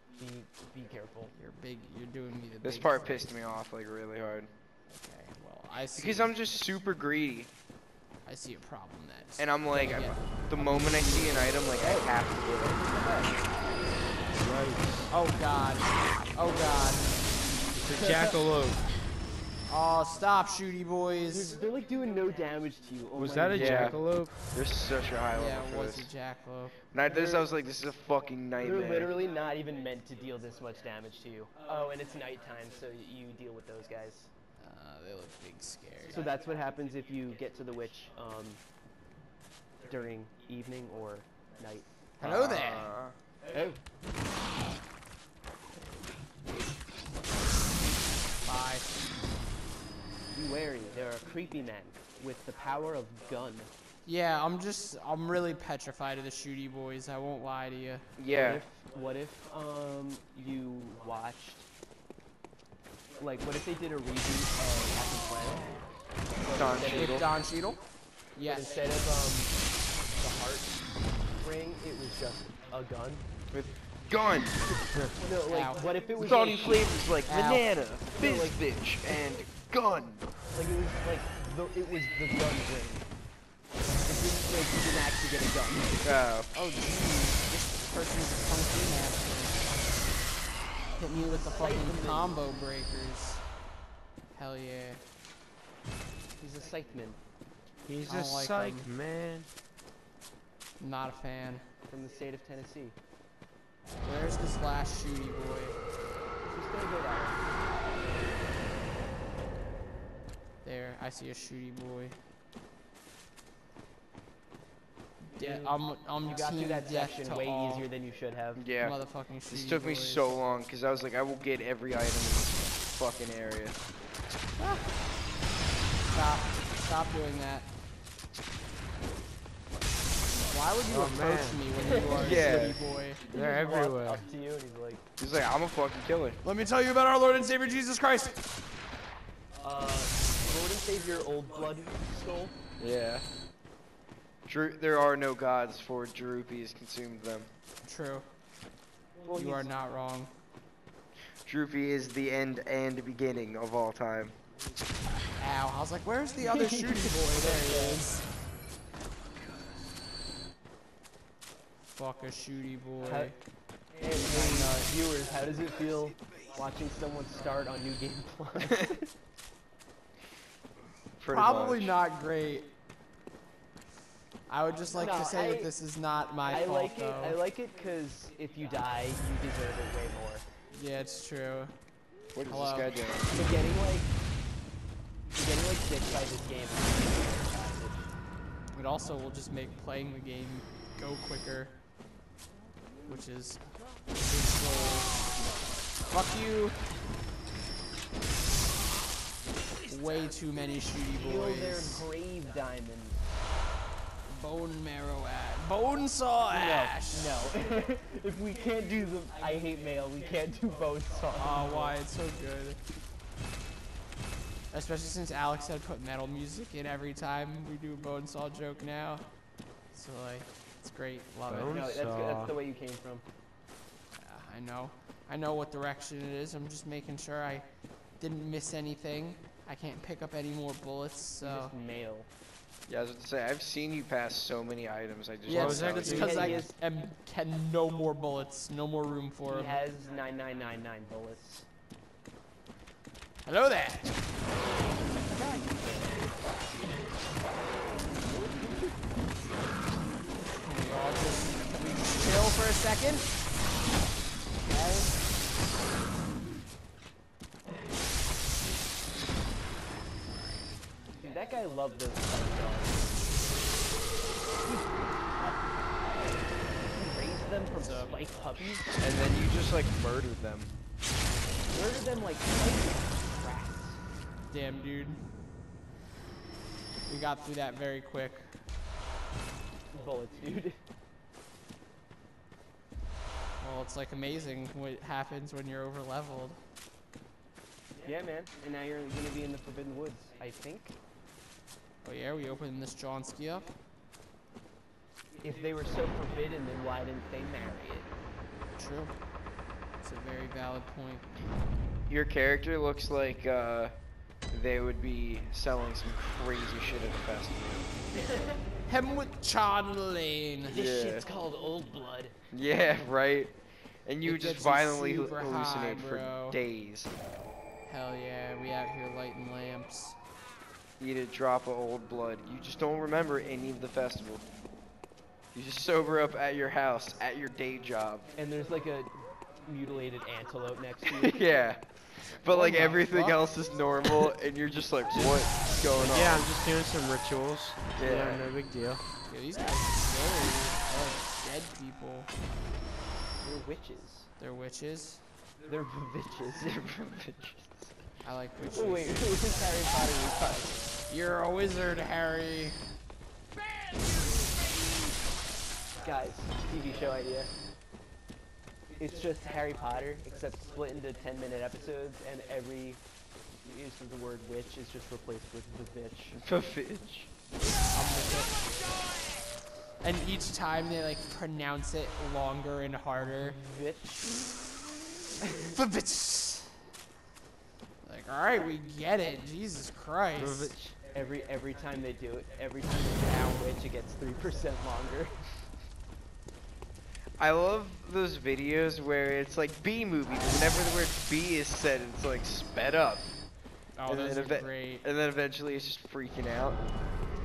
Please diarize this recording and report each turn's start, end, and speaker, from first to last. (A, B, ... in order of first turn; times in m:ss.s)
0:00.2-0:01.3 A
0:01.3-0:03.3 B
0:02.6-0:04.5 C
0:04.9-0:06.4 B
0:06.0-0:07.5 C
0:08.2-0:11.6 B
0:09.4-0:12.8 C
0:11.3-0:13.7 A
0:14.4-0:15.1 D
0:15.1-0:17.3 B
0:17.7-0:18.9 D
0:17.9-0:18.5 A
0:19.7-0:21.6 B
0:21.3-0:24.0 A
0:23.2-0:24.4 D
0:23.5-0:26.3 C
0:25.4-0:26.8 B
0:26.9-0:29.1 C
0:27.0-0:27.5 A
0:28.6-0:34.3 A
0:34.6-0:36.2 B
0:36.0-0:38.6 A
0:39.9-0:41.9 A
0:42.2-0:43.0 B
0:42.2-0:43.2 C
0:43.5-0:43.8 A
0:48.4-0:48.9 B
0:50.3-0:53.7 A
0:54.0-0:58.1 B
0:58.2-0:58.6 C
0:58.3-1:01.7 A
1:03.2-1:05.7 A
1:06.4-1:07.3 A
1:06.5-1:07.3 C
1:07.0-1:08.8 B
1:08.4-1:09.6 A
1:10.1-1:10.8 A
1:11.3-1:13.2 A
1:13.5-1:14.6 C
1:15.2-1:17.0 A
1:15.5-1:15.9 B
1:16.2-1:20.3 C
1:17.2-1:17.8 B
1:18.1-1:18.6 A
1:20.5-1:23.1 A
1:24.0-1:26.2 A
1:26.0-1:26.5 C
1:26.5-1:33.6 B
1:31.4-1:32.5 A
1:34.3-1:35.0 B
1:36.4-1:37.2 A
1:37.8-1:39.5 D
1:38.1-1:38.9 B
1:40.8-1:41.7 B
1:41.9-1:43.0 A
1:44.0-1:45.8 B
1:46.4-1:47.5 A
1:50.6-1:52.2 B
1:55.2-1:57.9 B
1:55.4-1:58.6 A
1:58.6-2:03.8 C
1:58.8-2:00.3 B
2:04.6-2:05.0 B
2:06.1-2:07.7 B
2:10.4-2:13.2 B
2:10.9-2:11.6 D
2:11.8-2:12.7 A
2:12.2-2:12.8 C
2:13.2-2:15.0 A
2:13.3-2:14.3 D
2:15.2-2:16.4 C
2:16.4-2:18.4 B
2:19.6-2:22.6 A
2:22.8-2:23.3 C
2:24.5-2:27.5 C
2:27.8-2:28.4 B
2:29.2-2:29.7 A
2:29.3-2:30.4 B
2:31.4-2:34.4 C
2:35.4-2:38.3 B
2:36.4-2:38.0 A
2:41.9-2:43.4 B
2:43.0-2:43.4 A
2:43.9-2:49.1 A
2:44.3-2:44.8 B
2:51.2-2:52.0 C
2:51.2-2:52.7 B
2:54.5-2:57.4 B
2:54.9-2:55.7 A
2:56.4-3:00.5 A
3:00.7-3:01.8 B
3:02.3-3:03.0 B
3:02.3-3:03.4 C
3:03.3-3:04.1 A
3:05.3-3:08.1 A
3:08.7-3:11.8 B
3:13.0-3:15.4 B
3:16.0-3:16.9 B
3:19.9-3:22.1 B
3:21.1-3:23.2 A
3:24.2-3:27.3 B
3:26.5-3:32.0 A
3:31.4-3:32.8 B
3:34.7-3:41.8 B
3:41.5-3:42.6 D
3:41.7-3:43.2 A
3:44.2-3:51.7 B
3:51.4-3:52.3 A
3:52.9-3:56.6 C
3:55.5-3:59.8 B
3:55.5-3:56.6 D
3:56.1-3:56.8 A
3:59.5-4:01.7 A
4:03.4-4:04.3 B
4:05.1-4:06.2 A
4:08.3-4:09.0 A
4:10.6-4:13.3 B
4:14.6-4:15.2 B
4:21.1-4:23.4 A
4:24.6-4:25.5 A
4:26.9-4:28.9 A
4:27.8-4:28.5 B
4:29.0-4:30.7 C
4:31.7-4:34.0 A
4:34.5-4:35.3 B
4:37.1-4:38.6 B
4:39.9-4:40.8 A
4:43.6-4:46.6 B
4:48.0-4:51.0 A
4:52.0-4:53.7 B
4:55.4-4:58.1 A
4:58.8-5:01.3 B
5:02.1-5:04.0 C
5:04.5-5:07.9 C
5:08.9-5:10.8 B
5:10.7-5:12.4 A
5:10.7-5:11.3 C
5:12.5-5:17.1 C
5:14.2-5:16.6 B
5:17.9-5:20.2 B
5:21.0-5:24.4 C
5:25.5-5:28.3 C
5:28.4-5:31.4 A
5:31.2-5:36.5 C
5:32.5-5:33.9 B
5:36.0-5:39.0 D
5:38.0-5:38.5 C
5:39.2-5:42.3 B
5:43.4-5:44.3 A
5:44.4-5:45.3 B
5:45.6-5:46.8 A
5:46.6-5:48.0 C
5:48.2-5:49.3 B
5:48.7-5:50.9 A
5:51.1-5:52.8 B
5:56.0-5:57.5 A
5:59.0-6:03.0 A
6:03.6-6:06.4 A
6:06.3-6:07.3 C
6:07.9-6:08.7 B
6:10.0-6:13.6 B
6:13.2-6:14.5 A
6:15.7-6:16.8 B
6:18.0-6:20.7 B
6:20.4-6:21.0 D
6:21.1-6:25.4 A
6:27.4-6:33.4 C
6:34.0-6:35.0 B
6:34.0-6:36.8 C